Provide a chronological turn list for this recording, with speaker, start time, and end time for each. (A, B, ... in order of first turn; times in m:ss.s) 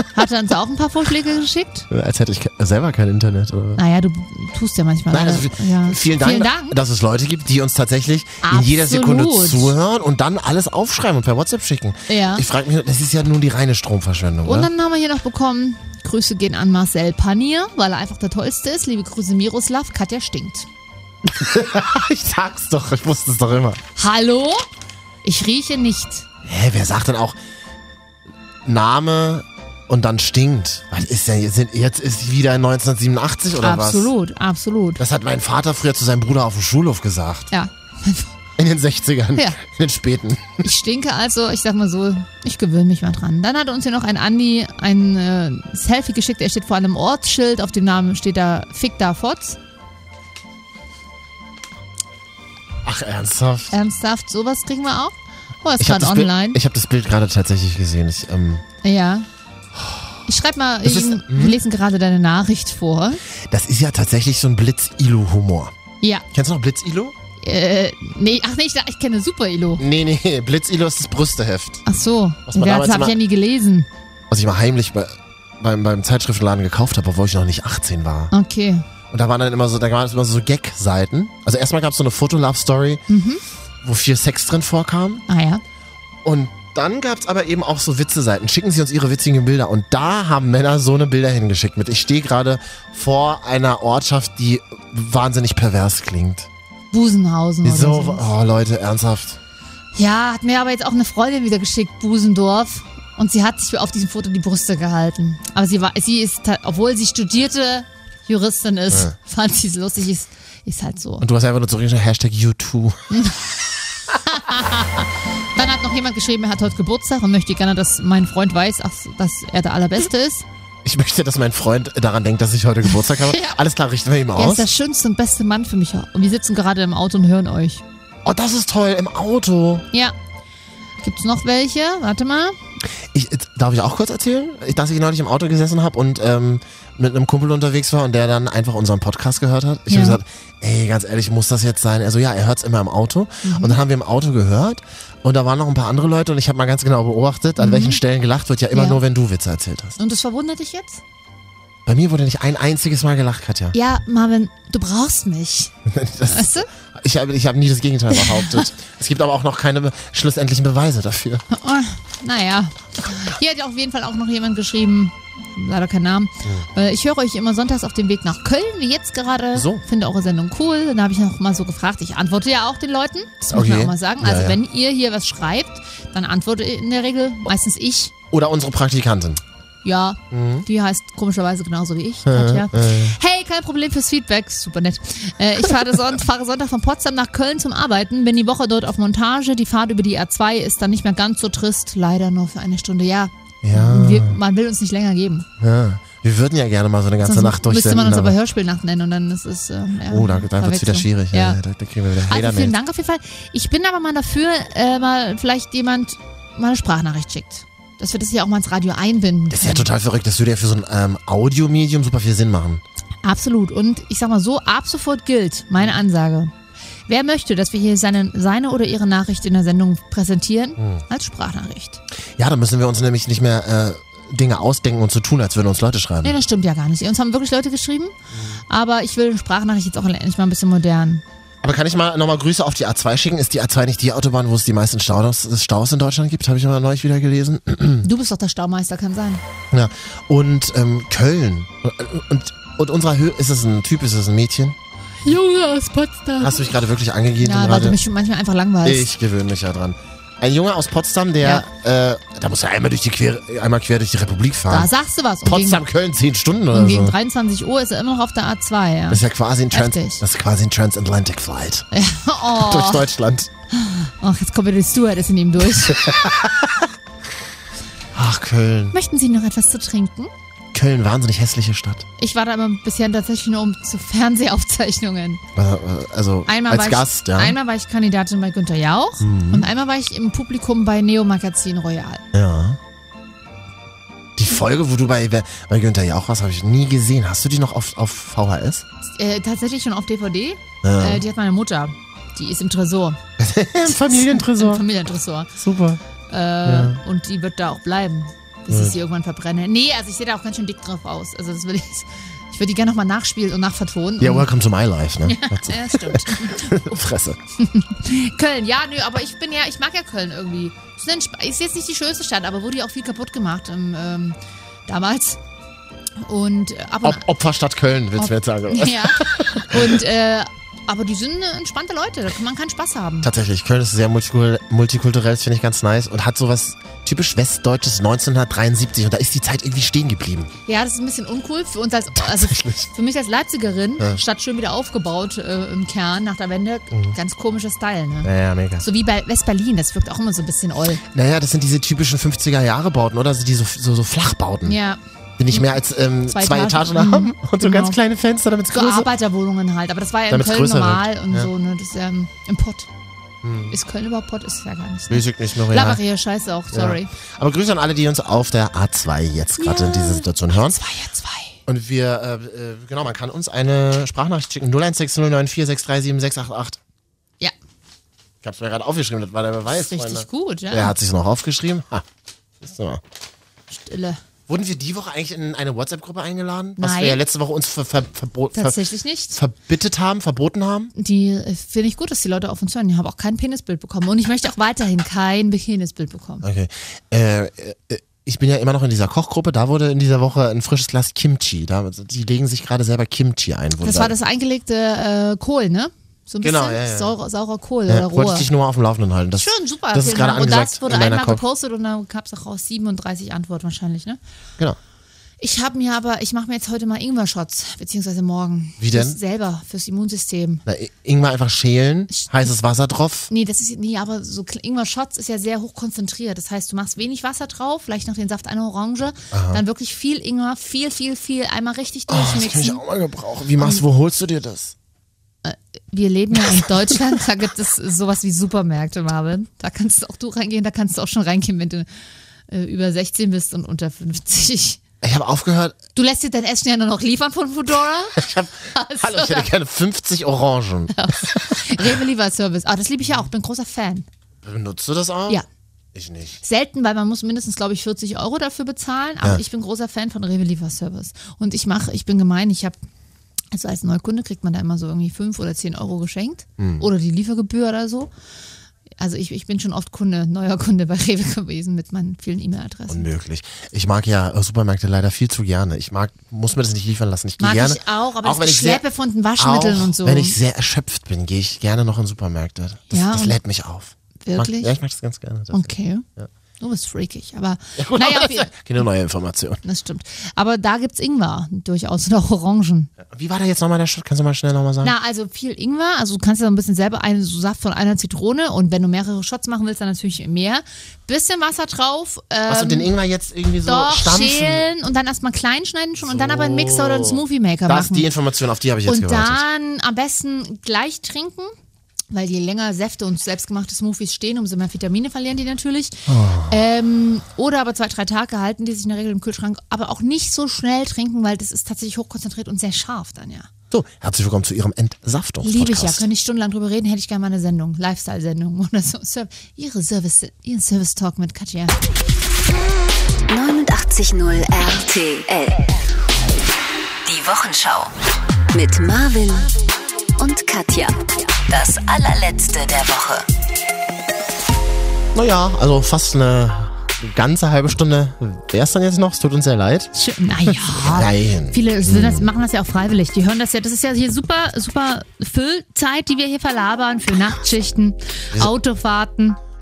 0:00.1-0:01.9 A
0:01.9-0:03.8 B
0:03.8-0:06.8 A
0:05.1-0:14.7 B
0:08.4-0:09.7 A
0:12.1-0:12.4 A
0:14.4-0:20.7 A
0:21.2-0:23.8 B
0:24.0-0:24.6 A
0:25.2-0:26.2 A
0:26.4-0:27.4 B
0:28.6-0:34.1 B
0:33.6-0:35.0 A
0:35.0-0:37.5 B
0:37.5-0:38.3 A
0:38.6-0:40.6 B
0:40.6-0:49.6 A
0:52.8-0:53.7 B
0:53.7-0:56.6 A
0:55.8-0:58.6 B
0:58.8-0:59.3 A
0:59.8-1:00.0 B
1:00.3-1:03.2 A
1:00.8-1:01.6 B
1:03.4-1:05.7 B
1:06.3-1:07.2 B
1:07.4-1:09.8 A
1:09.8-1:11.8 B
1:11.8-1:13.9 A
1:12.5-1:13.1 B
1:14.3-1:18.3 B
1:18.3-1:18.8 A
1:19.1-1:23.0 B
1:23.1-1:23.4 A
1:23.8-1:25.2 B
1:25.3-1:25.6 A
1:26.2-1:36.5 B
1:36.9-1:38.2 A
1:37.6-1:39.4 B
1:39.9-1:51.2 A
1:51.2-1:53.1 B
1:53.1-1:53.5 A
1:54.2-2:00.4 A
2:00.8-2:04.7 B
2:03.0-2:03.6 A
2:04.3-2:07.8 A
2:08.2-2:09.8 B
2:11.0-2:12.6 A
2:13.1-2:30.0 B
2:19.9-2:20.2 A
2:23.4-2:23.8 A
2:27.6-2:28.0 A
2:28.7-2:29.0 A
2:30.0-2:31.0 A
2:31.8-2:33.7 B
2:33.7-2:35.7 A
2:35.8-2:41.4 B
2:36.2-2:36.7 A
2:38.1-2:38.7 A
2:41.5-2:58.1 A
2:49.5-2:49.8 B
2:53.5-2:54.6 B
2:58.3-2:59.4 B
2:59.8-3:15.5 A
3:00.3-3:00.6 B
3:02.2-3:03.2 B
3:13.6-3:14.4 B
3:15.6-3:18.3 B
3:17.2-3:21.6 A
3:20.1-3:22.7 B
3:22.3-3:29.9 A
3:29.5-3:32.8 B
3:33.2-3:36.5 A
3:37.1-3:42.0 A
3:40.8-3:41.0 B
3:42.4-3:46.4 B
3:46.2-3:48.1 A
3:48.3-3:48.6 B
3:48.7-3:51.2 A
3:51.6-3:58.1 B
3:58.0-3:59.4 A
3:59.7-4:04.8 B
4:05.2-4:06.7 A
4:06.4-4:08.0 B
4:07.4-4:09.1 A
4:08.8-4:14.9 B
4:14.7-4:15.8 A
4:15.4-4:17.2 B
4:16.7-4:20.2 A
4:19.1-4:21.9 B
4:21.9-4:23.1 A
4:22.6-4:23.5 B
4:23.7-4:26.1 A
4:25.8-4:26.9 B
4:28.1-4:29.0 B
4:28.9-4:30.3 A
4:30.7-4:32.1 B
4:32.2-4:35.4 A
4:35.5-4:37.6 B
4:36.5-4:42.2 A
4:39.2-4:39.7 B
4:42.3-4:42.8 B
4:44.4-4:48.8 B
4:49.1-4:53.2 A
4:50.8-4:51.2 B
4:53.4-4:54.8 B
4:53.8-4:55.5 A
4:55.6-4:56.0 B
4:56.3-5:04.5 A
4:56.6-4:57.0 B
4:58.7-4:58.9 B
5:04.2-5:07.4 B
5:05.2-5:06.9 A
5:07.6-5:15.4 A
5:16.2-5:17.2 A
5:17.0-5:20.0 B
5:18.2-5:23.3 A
5:23.2-5:30.5 B
5:30.6-5:41.0 A
5:32.2-5:32.9 B
5:38.2-5:38.8 B
5:41.0-5:44.8 B
5:44.6-5:45.0 A
5:45.4-5:49.1 B
5:46.3-5:48.0 A
5:48.7-5:52.9 A
5:50.3-5:51.5 B
5:53.4-5:53.8 B
5:53.7-5:57.1 A
5:55.1-5:56.0 B
5:56.7-6:00.8 B
5:59.6-6:01.6 A
6:01.7-6:06.8 B
6:08.4-6:12.0 B
6:09.7-6:10.9 A
6:12.6-6:13.0 B
6:13.7-6:14.2 A
6:14.5-6:18.8 B
6:16.8-6:17.2 A
6:18.5-6:19.4 A
6:19.3-6:20.9 B
6:20.9-6:26.4 A
6:26.4-6:34.1 B
6:33.8-6:38.5 A
6:36.4-6:37.1 B
6:37.9-6:41.4 B
6:39.4-6:44.2 A
6:45.4-6:50.6 A
6:48.8-6:49.2 B
6:50.6-6:53.3 B
6:52.1-6:52.4 A
6:53.3-7:02.8 A
6:59.3-6:59.6 B
7:02.1-7:04.7 B
7:05.4-7:11.9 A
7:06.4-7:07.0 B
7:12.5-7:14.8 A
7:15.0-7:15.8 B
7:15.9-7:19.5 A
7:18.2-7:21.9 B
7:20.9-7:24.0 A
7:24.4-7:25.4 B
7:25.9-7:26.4 B
7:26.4-7:32.8 A
7:33.5-7:38.1 A
7:36.6-7:36.9 B
7:39.0-7:43.1 A
7:42.9-7:48.8 B
7:47.4-7:50.4 A
7:49.4-7:56.3 B
7:52.9-7:53.4 A
7:54.2-7:54.7 A
7:55.5-7:56.0 A
7:56.6-7:58.5 A
7:57.8-7:59.6 B
7:59.6-8:02.9 A
8:03.0-8:04.9 B
8:04.8-8:12.9 A
8:12.5-8:14.7 B
8:13.6-8:18.1 A
8:16.0-8:19.4 B
8:18.8-8:21.5 A
8:22.1-8:33.5 A
8:26.1-8:26.6 B
8:33.7-8:36.0 B
8:35.4-8:41.8 A
8:43.3-8:45.8 C
8:47.0-8:47.9 C
8:48.5-8:49.5 C
8:50.2-8:53.3 C
8:55.1-8:59.9 B
8:59.9-9:09.4 A
9:00.4-9:02.3 B